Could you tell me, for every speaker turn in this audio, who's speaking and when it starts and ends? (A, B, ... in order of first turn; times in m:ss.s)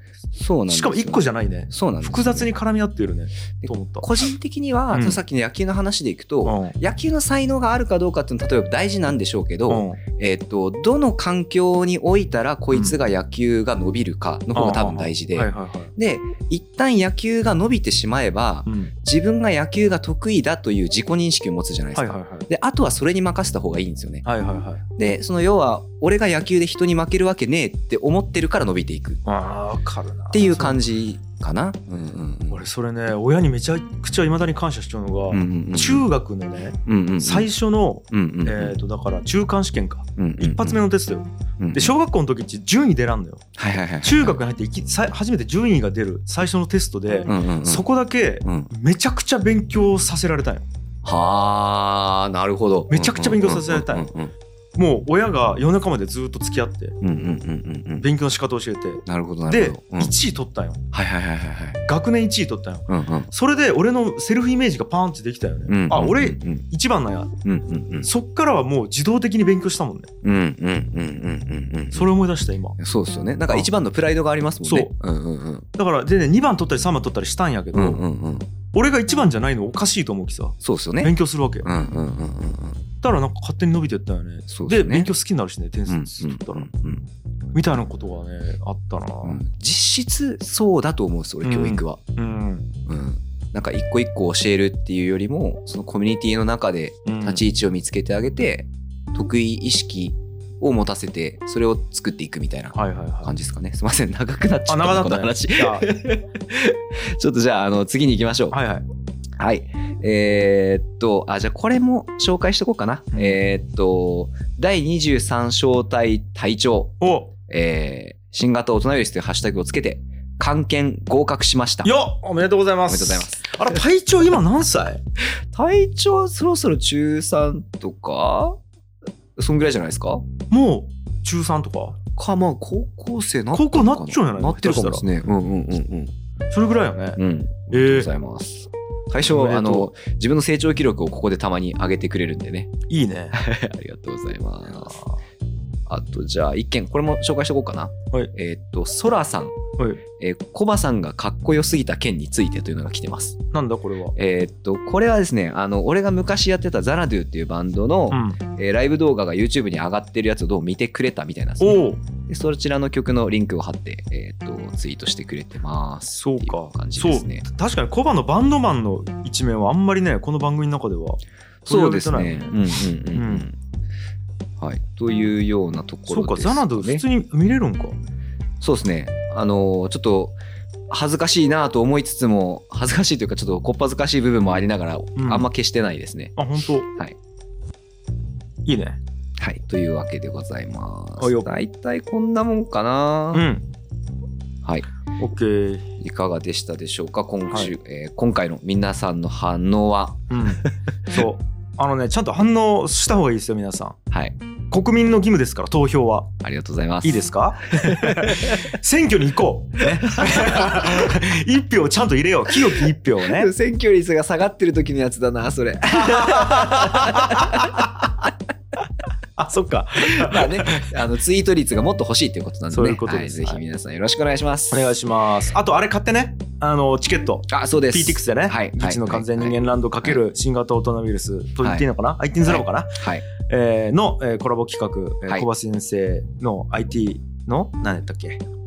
0:00.3-0:02.5 A
0:00.7-0:04.1 B
0:03.6-0:24.2 A
0:04.9-0:05.2 B
0:06.4-0:06.8 B
0:09.7-0:10.0 B
0:14.6-0:15.9 B
0:18.7-0:18.9 B
0:22.0-0:22.5 B
0:24.2-0:24.8 B
0:25.0-0:29.2 A
0:29.2-0:30.8 B
0:30.3-0:32.7 A
0:32.5-0:43.4 B
0:35.3-0:36.1 A
0:36.9-0:37.5 A
0:38.1-0:38.8 A
0:40.2-0:40.8 A
0:41.6-0:41.9 A
0:43.6-0:44.4 A
0:44.0-0:50.7 B
0:47.3-0:47.8 A
0:51.0-0:54.3 A
0:52.9-0:54.1 B
0:54.8-0:57.0 B
0:57.0-0:58.1 A
0:58.0-1:00.8 B
0:59.1-1:00.1 A
1:00.9-1:01.8 A
1:01.9-1:07.3 B
1:02.9-1:03.3 A
1:05.7-1:06.6 A
1:07.4-1:08.1 A
1:08.0-1:10.1 B
1:10.2-1:12.1 A
1:11.9-1:12.8 B
1:12.8-1:15.7 A
1:14.6-1:14.9 B
1:15.8-1:18.0 B
1:17.7-1:18.5 A
1:18.7-1:21.7 B
1:20.6-1:21.1 A
1:21.6-1:22.8 A
1:23.0-1:26.7 B
1:24.5-1:25.1 A
1:25.9-1:27.0 A
1:27.6-1:29.4 B
1:29.2-1:32.0 A
1:31.4-1:32.7 B
1:32.9-1:48.6 A
1:37.1-1:37.4 B
1:42.7-1:43.3 B
1:44.7-1:45.9 B
1:48.5-1:48.8 B
1:49.4-2:01.9 A
1:53.1-1:53.4 B
1:57.0-1:57.3 B
2:01.8-2:05.0 B
2:02.9-2:03.8 A
2:05.5-2:08.6 A
2:09.4-2:10.3 A
2:10.5-2:12.0 B
2:12.2-2:16.1 A
2:13.5-2:15.1 B
2:16.5-2:17.2 B
2:17.2-2:22.7 A
2:17.7-2:18.1 B
2:19.2-2:19.9 B
2:22.9-2:23.4 B
2:23.3-2:25.0 A
2:24.8-2:25.2 B
2:25.9-2:29.6 A
2:30.2-2:33.4 A
2:33.5-2:34.2 B
2:34.2-2:47.5 A
2:38.1-2:38.4 B
2:41.6-2:42.0 B
2:46.1-2:53.5 B
2:51.7-2:53.6 A
2:54.6-2:57.0 A
2:56.1-2:58.0 B
2:58.6-3:00.4 A
3:00.9-3:06.4 A
3:05.2-3:05.5 B
3:06.4-3:06.9 B
3:08.7-3:09.0 B
3:09.4-3:13.5 A
3:11.2-3:11.5 B
3:13.3-3:13.7 B
3:15.2-3:15.9 B
3:16.0-3:20.7 A
3:20.3-3:24.0 B
3:24.1-3:24.4 A
3:24.7-3:26.3 B
3:26.4-3:28.7 A
3:27.0-3:33.5 B
3:29.8-3:31.0 A
3:33.2-3:38.3 A
3:35.9-3:38.1 B
3:39.4-3:40.9 B
3:40.1-3:44.9 A
3:42.7-3:43.6 B
3:44.7-3:58.4 B
3:47.5-3:50.2 A
3:52.4-3:53.2 A